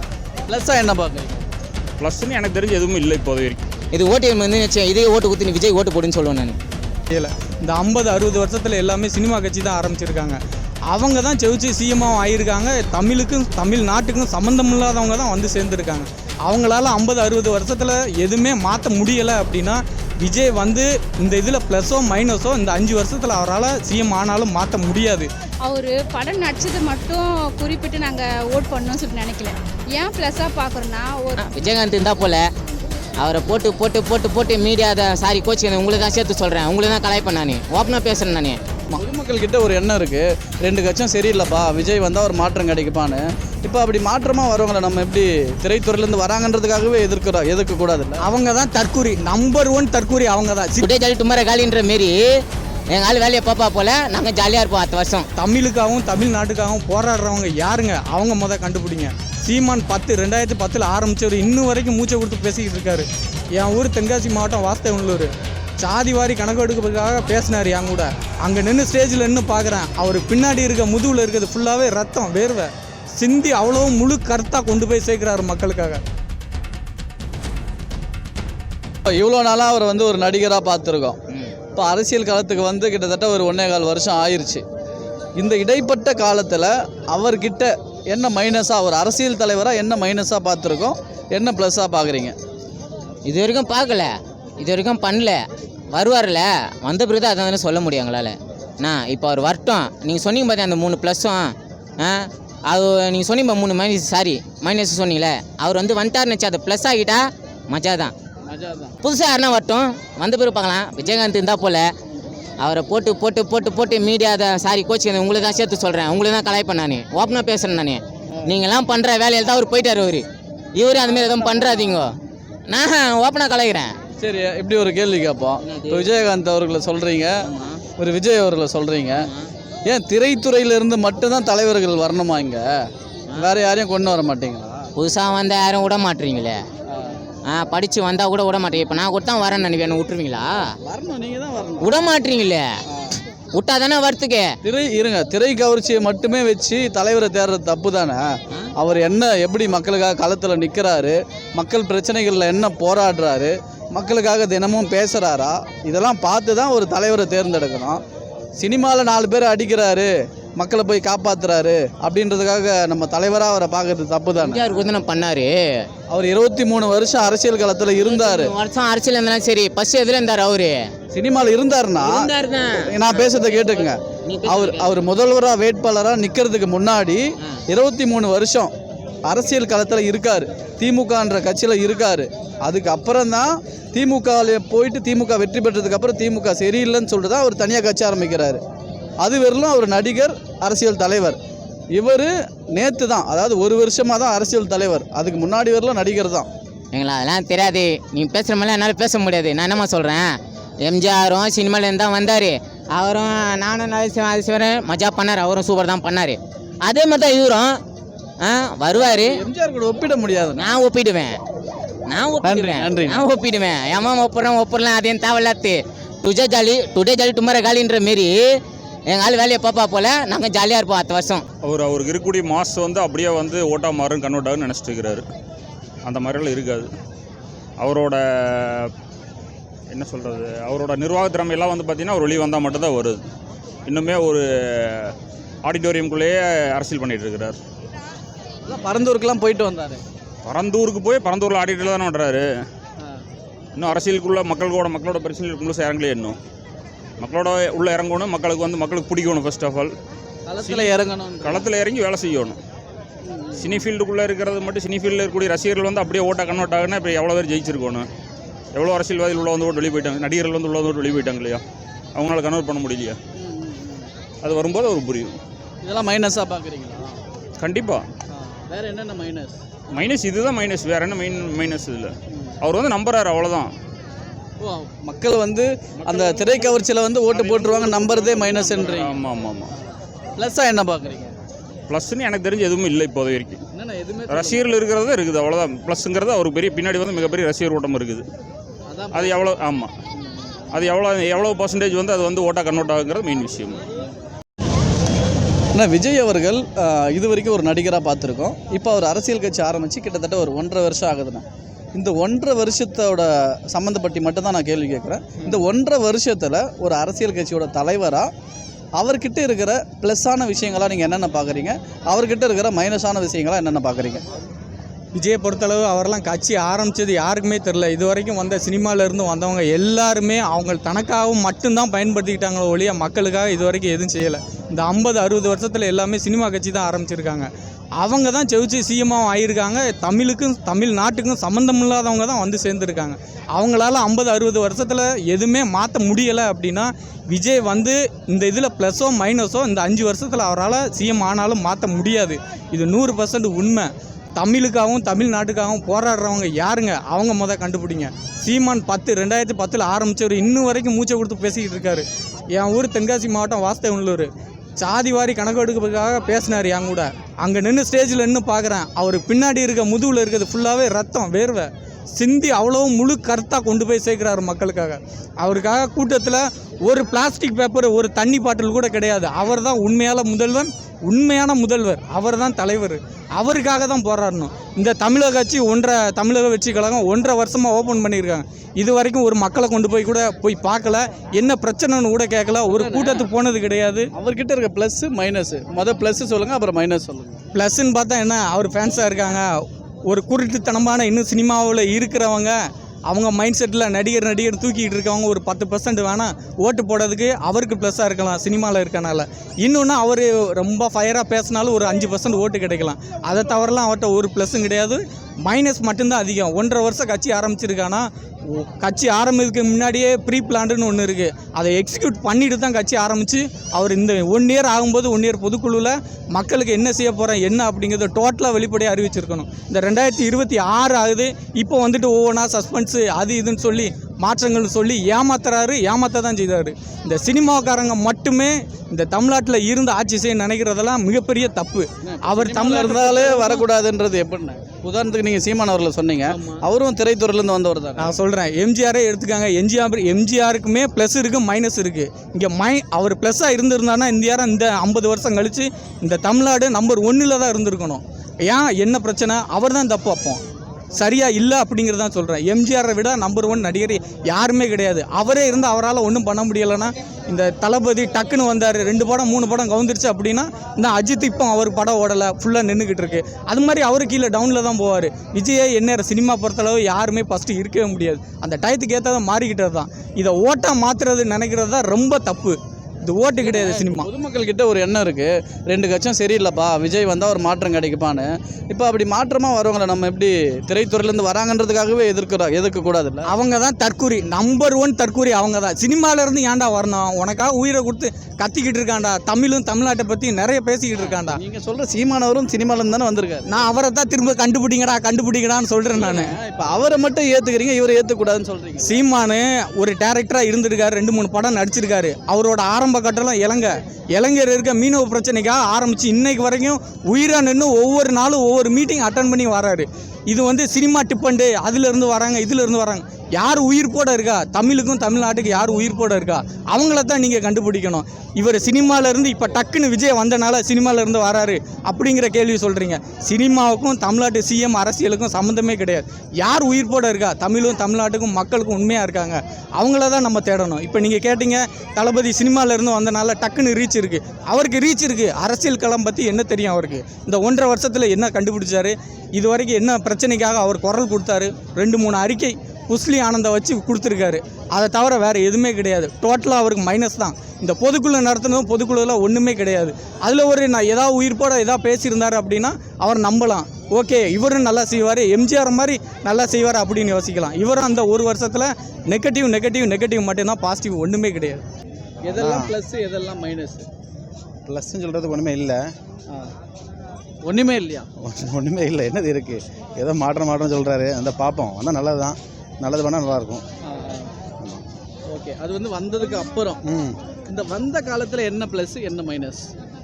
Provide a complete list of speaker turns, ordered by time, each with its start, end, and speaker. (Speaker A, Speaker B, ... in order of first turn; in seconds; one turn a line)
Speaker A: 0.5-1.4
Speaker B: 2.0-3.6
Speaker C: 3.9-6.6
Speaker D: 7.1-10.4
Speaker D: 10.9-25.3
Speaker E: 25.6-31.8
Speaker C: 31.4-32.4
Speaker C: 33.2-38.6
Speaker A: 38.9-48.2
Speaker D: 48.2-50.9
Speaker C: 50.8-52.1
Speaker C: 52.9-55.2
Speaker D: 55.4-76.0
Speaker A: 79.1-81.2
Speaker A: 81.7-84.6
Speaker A: 85.4-92.3
Speaker C: 93.2-94.1
Speaker C: 94.6-95.4
Speaker C: 95.9-108.1
Speaker A: 108.5-108.9
Speaker C: 109.0-111.9
Speaker C: 112.6-120.2
Speaker C: 120.7-122.1
Speaker C: 122.7-123.9
Speaker A: 124.2-127.3
Speaker C: 125.6-126.1
Speaker C: 127.5-127.8
Speaker A: 128.0-129.2
Speaker A: 129.9-132.7
Speaker A: 133.3-134.9
Speaker C: 135.0-136.6
Speaker A: 136.9-137.2
Speaker C: 137.5-140.5
Speaker A: 140.8-141.9
Speaker C: 141.8-142.6
Speaker C: 143.6-144.5
Speaker A: 144.6-148.2
Speaker A: 148.8-158.0
Speaker A: 158.6-164.8
Speaker C: 164.4-165.5
Speaker A: 166.1-168.5
Speaker C: 168.0-170.8
Speaker A: 171.1-172.2
Speaker C: 172.0-173.2
Speaker A: 172.8-178.7
Speaker C: 174.3-175.0
Speaker A: 179.3-188.6
Speaker A: 189.2-191.4
Speaker A: 191.9-196.5
Speaker C: 196.9-200.2
Speaker C: 200.8-207.7
Speaker C: 208.4-209.4
Speaker A: 208.9-210.7
Speaker C: 210.6-211.4
Speaker C: 212.1-218.3
Speaker A: 212.4-213.2
Speaker C: 219.1-221.4
Speaker B: 221.6-225.2
Speaker B: 226.0-226.9
Speaker B: 227.8-228.9
Speaker B: 229.9-233.2
Speaker B: 233.9-237.6
Speaker A: 238.7-240.0
Speaker B: 240.4-242.4
Speaker B: 243.8-246.4
Speaker B: 247.2-249.9
Speaker A: 250.4-251.7
Speaker B: 250.6-252.6
Speaker A: 253.2-253.9
Speaker B: 253.6-258.1
Speaker B: 258.7-261.6
Speaker B: 262.1-263.2
Speaker A: 263.4-264.1
Speaker B: 264.4-265.4
Speaker A: 265.8-267.2
Speaker B: 267.6-268.0
Speaker A: 268.3-269.6
Speaker B: 269.9-273.7
Speaker A: 274.6-279.2
Speaker B: 276.0-279.7
Speaker A: 280.4-281.3
Speaker B: 281.9-283.6
Speaker A: 283.7-284.7
Speaker B: 284.3-288.2
Speaker A: 288.9-289.4
Speaker B: 289.1-289.9
Speaker A: 290.2-290.9
Speaker B: 290.7-293.8
Speaker A: 295.7-308.3
Speaker A: 309.0-314.2
Speaker D: 315.1-327.5
Speaker D: 328.0-384.1
Speaker A: 382.7-383.3
Speaker A: 384.1-387.4
Speaker D: 387.5-389.5
Speaker D: 390.1-392.5
Speaker D: 393.1-433.6
Speaker A: 432.0-438.2
Speaker D: 436.3-436.6
Speaker D: 438.0-450.4
Speaker D: 450.9-474.1
Speaker A: 473.4-483.3
Speaker D: 483.3-491.4
Speaker A: 491.0-493.6
Speaker D: 493.5-496.3
Speaker A: 495.9-499.0
Speaker D: 498.8-561.6
Speaker A: 562.2-563.9
Speaker F: 562.3-562.7
Speaker F: 564.6-565.9
Speaker A: 567.4-568.1
Speaker F: 568.2-573.6
Speaker A: 573.8-574.3
Speaker A: 575.3-576.8
Speaker F: 576.8-577.2
Speaker A: 577.5-579.7